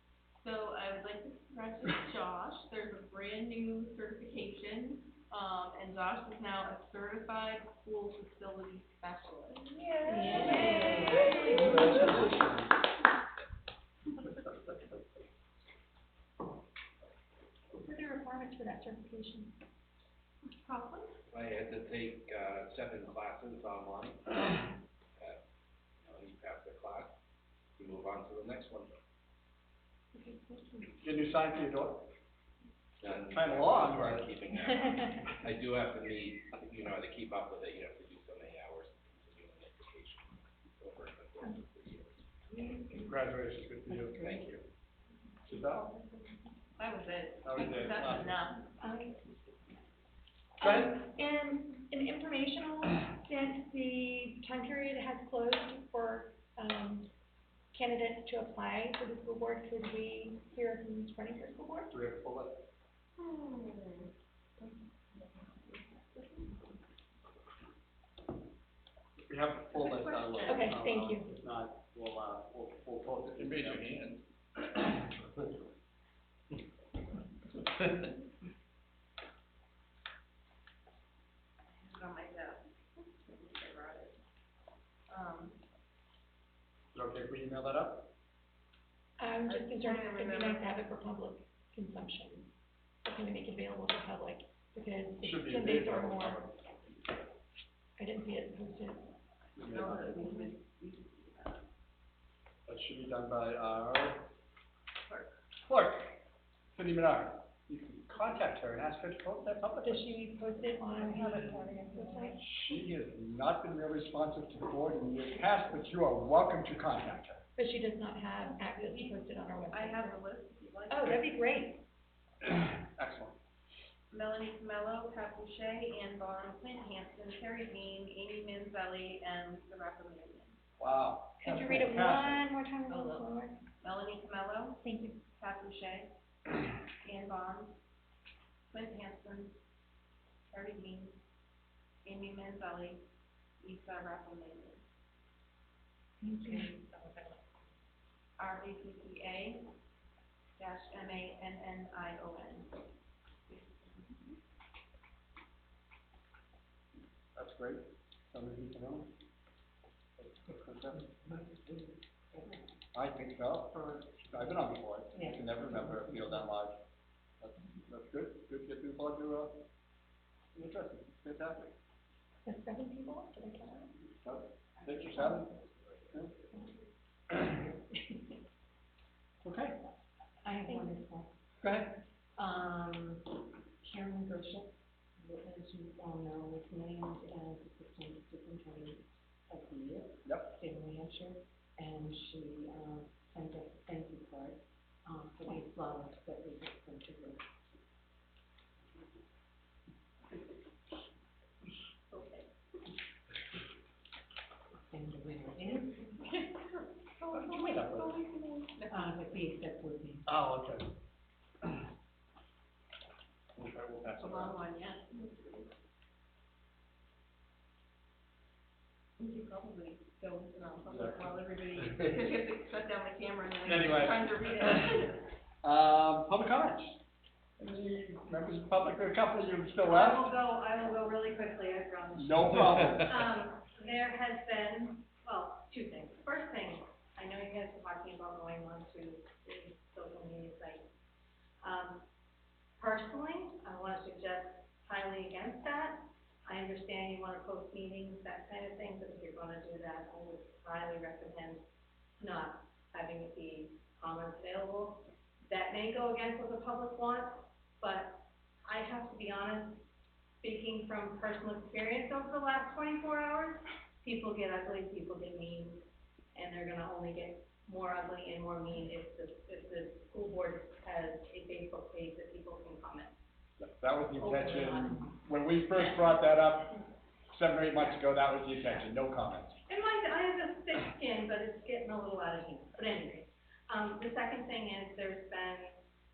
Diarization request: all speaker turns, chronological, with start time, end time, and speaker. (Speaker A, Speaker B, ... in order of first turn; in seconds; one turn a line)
Speaker A: 0.4-12.0
Speaker B: 10.0-12.0
Speaker C: 10.4-12.7
Speaker D: 10.5-11.3
Speaker B: 17.7-19.6
Speaker A: 20.7-21.1
Speaker E: 21.3-24.6
Speaker E: 26.0-27.1
Speaker E: 27.8-28.9
Speaker B: 30.1-30.9
Speaker C: 31.0-32.1
Speaker E: 33.0-42.2
Speaker C: 33.1-34.3
Speaker C: 42.9-44.6
Speaker F: 43.9-44.4
Speaker E: 44.1-44.5
Speaker C: 45.5-45.8
Speaker A: 45.7-48.7
Speaker C: 47.4-48.3
Speaker B: 48.8-49.2
Speaker B: 50.6-57.1
Speaker C: 50.6-51.0
Speaker B: 57.7-61.9
Speaker C: 61.9-62.6
Speaker A: 63.2-66.7
Speaker C: 69.2-74.0
Speaker A: 69.7-70.8
Speaker B: 70.4-71.3
Speaker E: 73.4-74.2
Speaker A: 81.8-84.2
Speaker A: 85.1-85.6
Speaker C: 86.9-88.1
Speaker B: 89.2-92.5
Speaker A: 89.4-90.8
Speaker B: 93.0-96.4
Speaker C: 95.2-96.7
Speaker B: 98.0-99.1
Speaker C: 99.5-100.2
Speaker A: 99.6-101.6
Speaker B: 100.2-100.5
Speaker C: 102.7-104.2
Speaker A: 105.0-105.3
Speaker C: 105.7-106.2
Speaker C: 106.7-110.2
Speaker B: 109.8-112.4
Speaker A: 111.1-112.3
Speaker C: 112.4-117.4
Speaker B: 117.6-120.2
Speaker A: 118.4-121.3
Speaker B: 120.9-121.8
Speaker C: 122.4-123.3
Speaker A: 124.1-130.6
Speaker C: 130.8-132.4
Speaker B: 131.4-133.6
Speaker A: 132.9-133.3
Speaker A: 133.8-136.1
Speaker B: 134.8-135.2
Speaker A: 137.0-137.7
Speaker A: 138.7-139.5
Speaker A: 140.5-141.2
Speaker A: 142.0-143.0
Speaker A: 143.6-144.8
Speaker B: 146.2-146.7
Speaker F: 146.5-147.4
Speaker A: 148.4-149.7
Speaker A: 150.6-152.8
Speaker A: 153.5-154.3
Speaker C: 157.3-159.1
Speaker C: 160.2-161.0
Speaker F: 160.9-162.7
Speaker C: 162.9-166.8
Speaker F: 165.1-166.5
Speaker C: 167.4-169.5
Speaker C: 170.5-171.7
Speaker B: 172.4-173.9
Speaker C: 174.2-175.5
Speaker C: 179.4-179.8
Speaker F: 180.4-181.3
Speaker B: 180.6-181.0
Speaker C: 181.6-182.0
Speaker F: 182.4-184.7
Speaker F: 185.2-197.4
Speaker C: 190.2-190.5
Speaker A: 202.1-202.5
Speaker F: 204.8-206.1
Speaker A: 206.2-209.1
Speaker C: 207.3-208.2
Speaker F: 208.9-210.2
Speaker C: 210.2-210.9
Speaker C: 213.5-214.6
Speaker A: 214.2-215.7
Speaker A: 219.2-225.3
Speaker C: 220.9-221.4
Speaker C: 223.6-224.5
Speaker C: 225.6-227.0
Speaker C: 227.6-230.3
Speaker D: 229.8-240.8
Speaker C: 232.2-233.1
Speaker D: 241.6-242.0
Speaker D: 242.8-251.6
Speaker D: 252.2-259.8
Speaker D: 260.4-265.8
Speaker D: 266.3-273.1
Speaker C: 273.6-276.8
Speaker D: 274.1-275.0
Speaker C: 277.3-279.6
Speaker D: 279.7-285.8